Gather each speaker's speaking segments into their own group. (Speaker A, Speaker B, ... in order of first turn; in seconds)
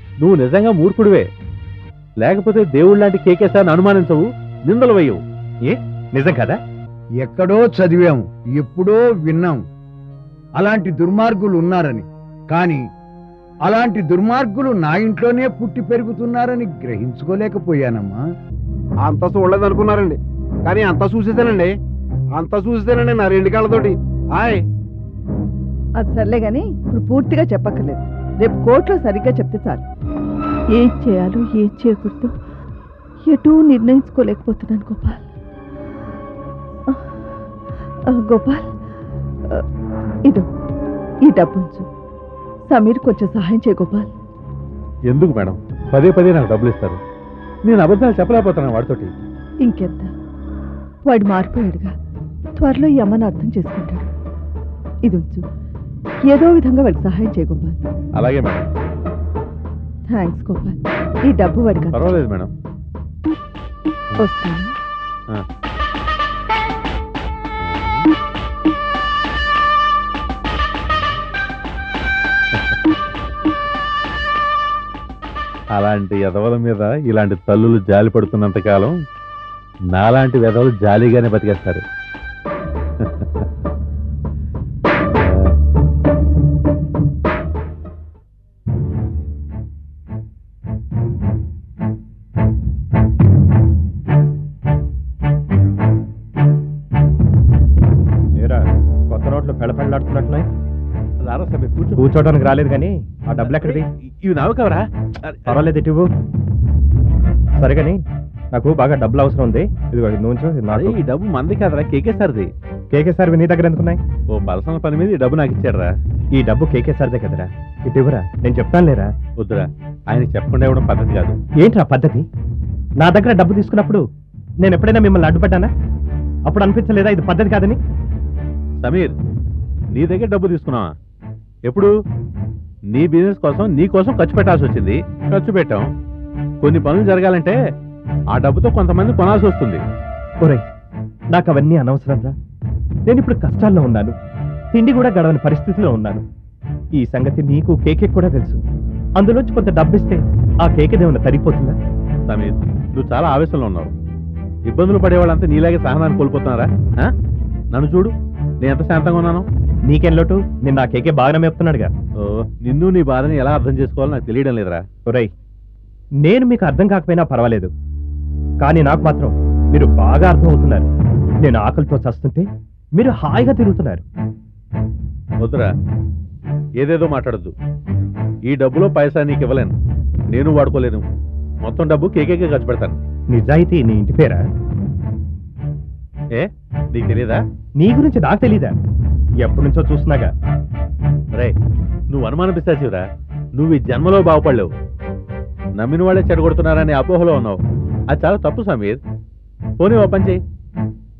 Speaker A: 0.2-1.2, 2.2-5.2, 45.1-47.0, 47.7-49.1, 58.2-58.7, 61.9-62.5, 67.6-68.0, 75.7-78.9, 79.9-81.8, 83.0-83.5, 85.2-85.5, 101.2-102.0, 103.5-105.6, 110.7-112.5, 114.3-115.9, 119.4-121.3, 128.8-129.1, 129.9-130.9, 132.9-135.8, 136.6-137.6, 138.3-139.8, 152.3-153.9, 154.7-157.1, 157.7-159.4, 162.2-164.8, 175.4-175.7, 176.8-177.5, 178.5-179.7, 180.3-181.0, 181.6-183.0, 186.3-187.4, 192.1-193.0, 193.6-194.7, 195.8-197.6, 198.1-199.0, 199.8-200.4
Speaker B: 5.6-6.6, 98.4-100.5, 102.0-103.8, 105.5-106.1, 107.6-108.0, 108.5-111.0, 112.9-114.0, 116.3-119.1, 121.6-122.2, 123.0-124.0, 124.6-125.7, 126.5-127.8, 141.3-142.3, 143.1-144.1, 144.7-146.2, 147.0-148.6, 149.2-151.7, 159.9-161.9, 166.2-167.7, 168.6-170.9, 171.4-172.4, 173.0-174.0, 183.3-184.4, 187.8-188.7, 189.4-190.3
Speaker C: 7.2-9.6, 10.6-12.8, 13.6-18.2
Speaker D: 19.0-21.7, 22.3-24.6
Speaker E: 26.0-29.8, 30.7-32.3, 33.3-35.2, 38.1-38.6, 41.2-41.9, 42.7-44.1, 49.6-50.1, 51.1-51.9, 52.6-54.1, 55.0-55.4, 56.3-57.8, 60.1-62.2, 64.2-64.7